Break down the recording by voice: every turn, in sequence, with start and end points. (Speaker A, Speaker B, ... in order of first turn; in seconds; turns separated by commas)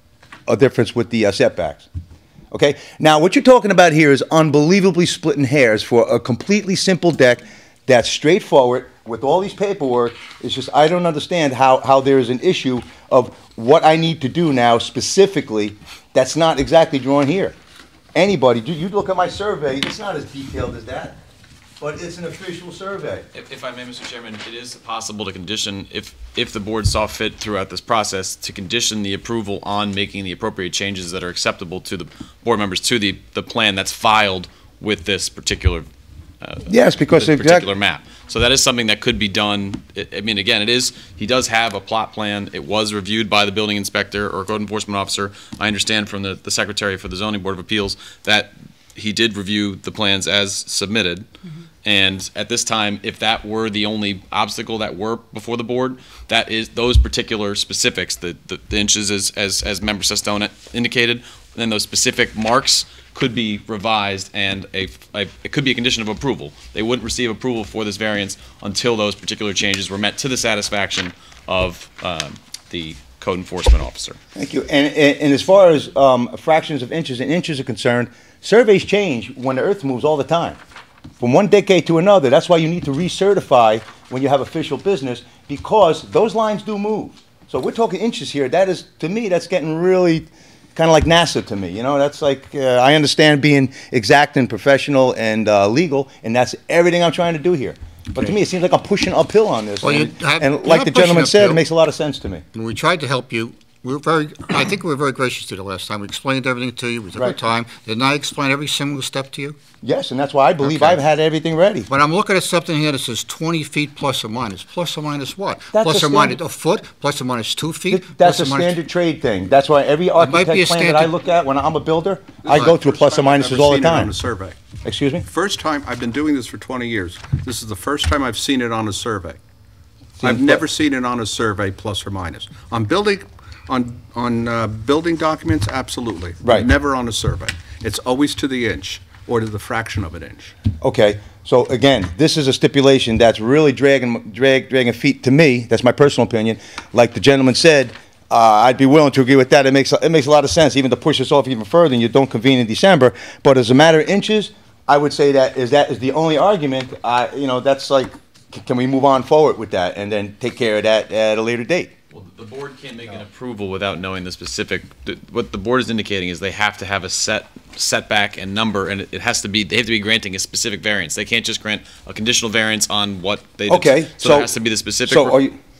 Speaker A: 0.5-1.9, Speaker A: 2.5-17.5, Speaker A: 18.1-21.2, Speaker A: 21.8-23.2, Speaker B: 23.3-35.9, Speaker B: 36.4-51.2, Speaker A: 36.7-37.7, Speaker B: 51.8-74.2, Speaker A: 74.3-80.6, Speaker A: 81.2-102.4, Speaker C: 99.8-101.6, Speaker C: 102.5-109.6, Speaker A: 109.8-111.9, Speaker C: 110.6-111.0, Speaker C: 111.9-118.8, Speaker A: 115.7-116.4, Speaker A: 117.9-124.1, Speaker C: 120.2-121.1, Speaker D: 122.4-124.5, Speaker A: 124.8-125.2, Speaker D: 125.2-129.4, Speaker A: 130.2-130.6, Speaker D: 130.2-140.5, Speaker A: 140.8-161.9, Speaker B: 162.1-175.4, Speaker A: 173.7-174.5, Speaker A: 175.1-175.5